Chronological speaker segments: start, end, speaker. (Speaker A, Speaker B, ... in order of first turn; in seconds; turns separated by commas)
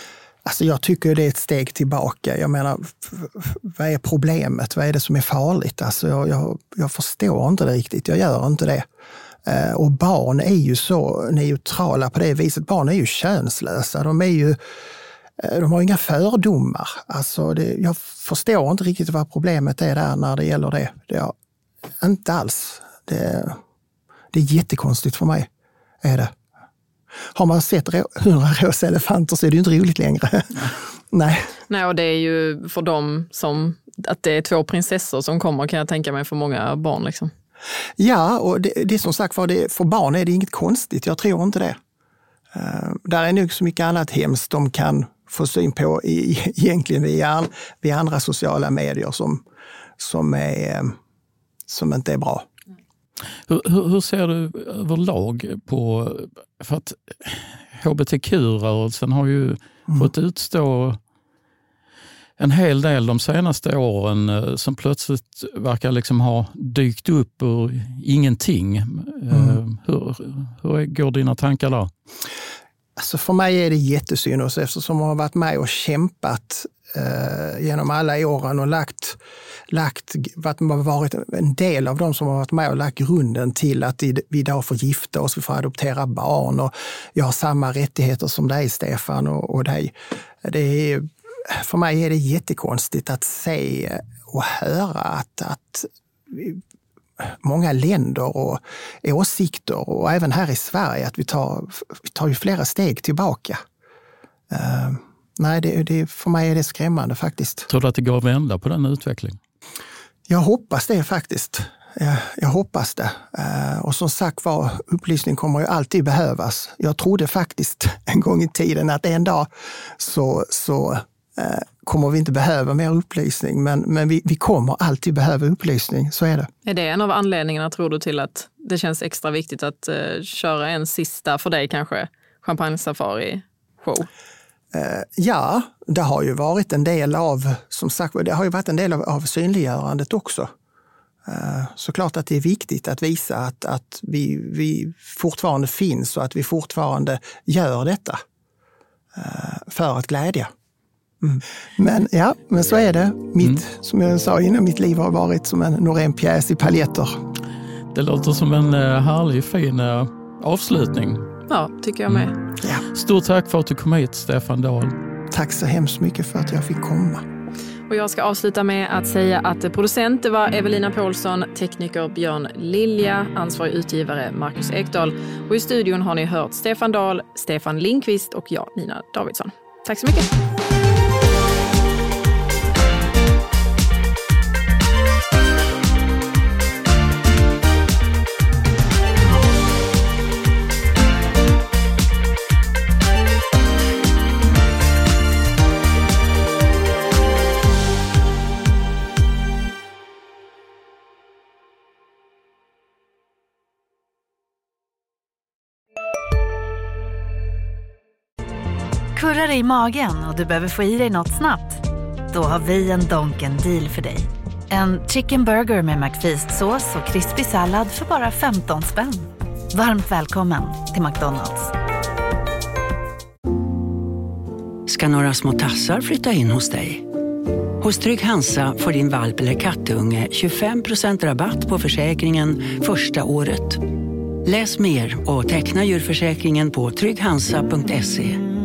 Speaker A: 0.5-8.9, Speaker A: 9.4-14.6, Speaker A: 15.4-21.3, Speaker A: 22.0-23.6, Speaker A: 24.3-25.5, Speaker A: 26.0-26.3, Speaker A: 27.3-31.5, Speaker B: 31.7-37.3, Speaker A: 38.0-41.8, Speaker A: 42.5-49.5, Speaker A: 50.0-51.0, Speaker A: 51.7-52.5, Speaker C: 53.5-61.0, Speaker C: 62.4-71.9, Speaker A: 69.3-69.6, Speaker A: 73.0-96.6, Speaker A: 97.2-103.6, Speaker A: 104.5-107.7, Speaker C: 107.7-109.4, Speaker A: 110.3-126.5, Speaker B: 126.6-134.1, Speaker A: 134.7-140.5, Speaker A: 141.2-148.2, Speaker A: 149.1-150.5, Speaker A: 151.2-157.2, Speaker C: 157.9-161.3, Speaker B: 161.5-162.3, Speaker C: 162.9-164.9, Speaker A: 165.3-167.2, Speaker B: 167.9-180.3, Speaker D: 209.1-221.7, Speaker E: 224.9-227.1, Speaker E: 227.8-233.9, Speaker E: 234.4-238.4